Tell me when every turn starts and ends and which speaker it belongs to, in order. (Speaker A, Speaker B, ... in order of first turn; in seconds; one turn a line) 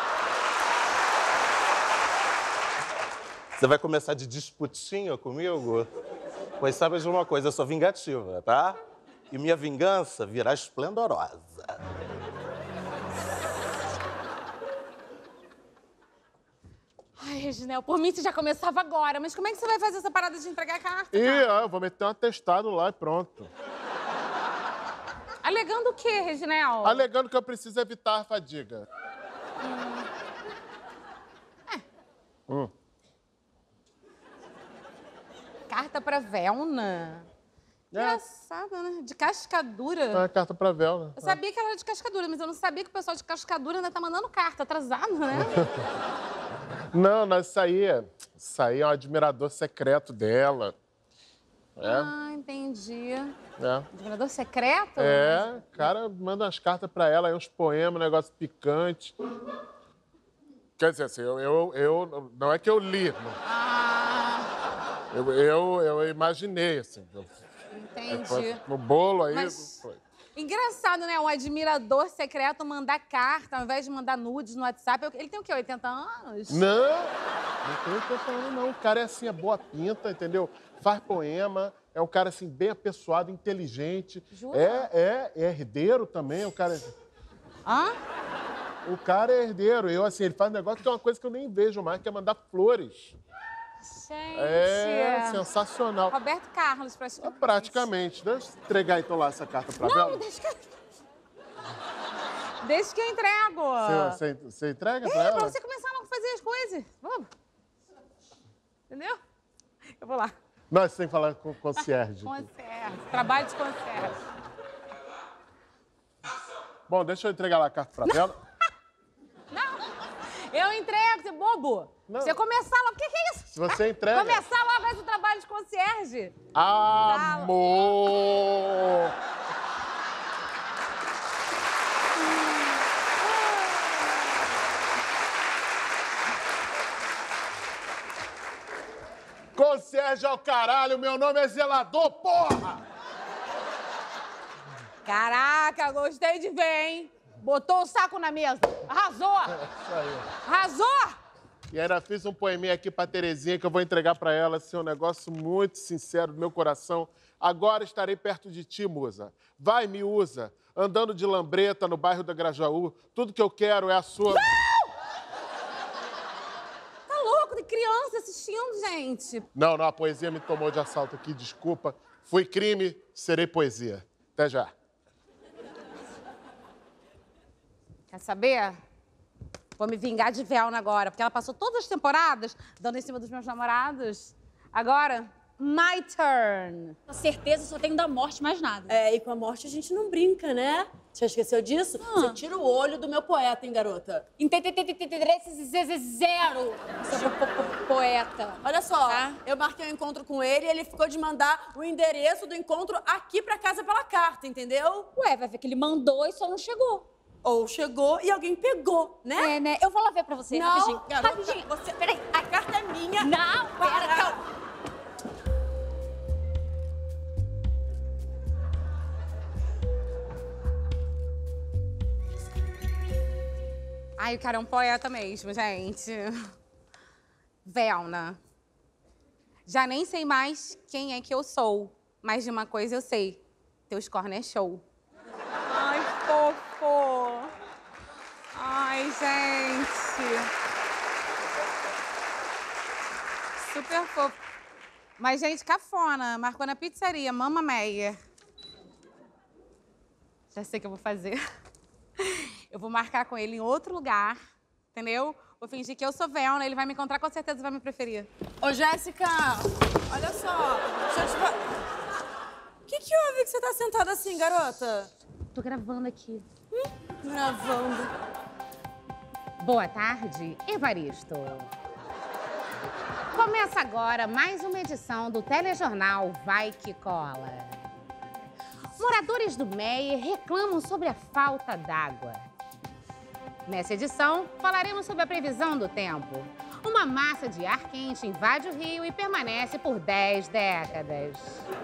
Speaker A: 3.6-5.9
Speaker A: 6.6-11.8
Speaker B: 17.2-21.6
Speaker C: 21.1-23.5
Speaker B: 25.4-27.1
Speaker C: 26.8-28.9
Speaker B: 29.6-30.1
Speaker B: 35.7-37.3
Speaker C: 37.9-38.2
Speaker B: 37.9-40.2
Speaker C: 40.1-41.4
Speaker B: 41.2-45.6
Speaker C: 46.9-50.8
Speaker C: 51.8-52.1
Speaker B: 51.8-53.3
Speaker C: 53.6-53.9
Speaker B: 53.9-55.5
Speaker C: 55.0-59.1
Speaker C: 60.8-63.4
Speaker B: 63.5-64.5
Speaker C: 65.1-67.4
Speaker B: 67.7-68.6
Speaker C: 68.1-70.0
Speaker B: 69.3-69.8
Speaker B: 70.3-76.6
Speaker C: 76.5-86.9
Speaker B: 84.3-84.9
Speaker B: 87.7-87.9
Speaker C: 88.8-93.2
Speaker B: 93.9-95.4
Speaker C: 94.3-96.2
Speaker B: 96.1-97.9
Speaker C: 97.2-100.3
Speaker B: 99.8-100.6
Speaker B: 102.6-104.2
Speaker C: 103.8-105.6
Speaker B: 105.0-107.3
Speaker B: 108.9-109.2
Speaker B: 110.0-110.3
Speaker C: 110.7-112.5
Speaker B: 111.8-114.2
Speaker C: 116.9-118.4
Speaker B: 119.5-119.8
Speaker B: 120.3-126.4
Speaker C: 122.1-122.4
Speaker C: 123.5-124.5
Speaker C: 126.5-129.1
Speaker B: 127.0-127.6
Speaker B: 133.4-133.7
Speaker C: 139.6-142.8
Speaker B: 145.1-149.6
Speaker C: 149.6-150.3
Speaker B: 150.4-151.2
Speaker C: 151.7-164.5
Speaker B: 164.3-164.8
Speaker B: 167.1-169.5
Speaker C: 169.6-174.7
Speaker B: 178.1-178.8
Speaker B: 179.8-187.0
Speaker D: 187.1-188.9
Speaker E: 188.9-194.3
Speaker D: 194.4-199.4
Speaker E: 197.3-197.7
Speaker E: 198.6-205.1
Speaker B: 199.1-199.4
Speaker D: 205.2-207.1
Speaker E: 207.4-209.5
Speaker D: 209.4-212.2
Speaker E: 210.5-214.4
Speaker D: 213.2-214.4
Speaker B: 224.2-226.4
Speaker B: 227.7-228.4
Speaker B: 229.7-234.8
Speaker B: 235.7-237.5
Speaker B: 238.5-240.5
Speaker B: 243.6-244.4
Speaker B: 245.2-248.2
Speaker B: 250.5-251.4
Speaker B: 252.2-254.4
Speaker B: 254.9-258.3
Speaker E: 258.6-261.6
Speaker E: 262.9-265.1
Speaker B: 265.5-266.5
Speaker E: 266.8-268.1
Speaker B: 269.6-271.7
Speaker B: 273.3-277.8
Speaker B: 279.0-282.4
Speaker B: 283.7-291.6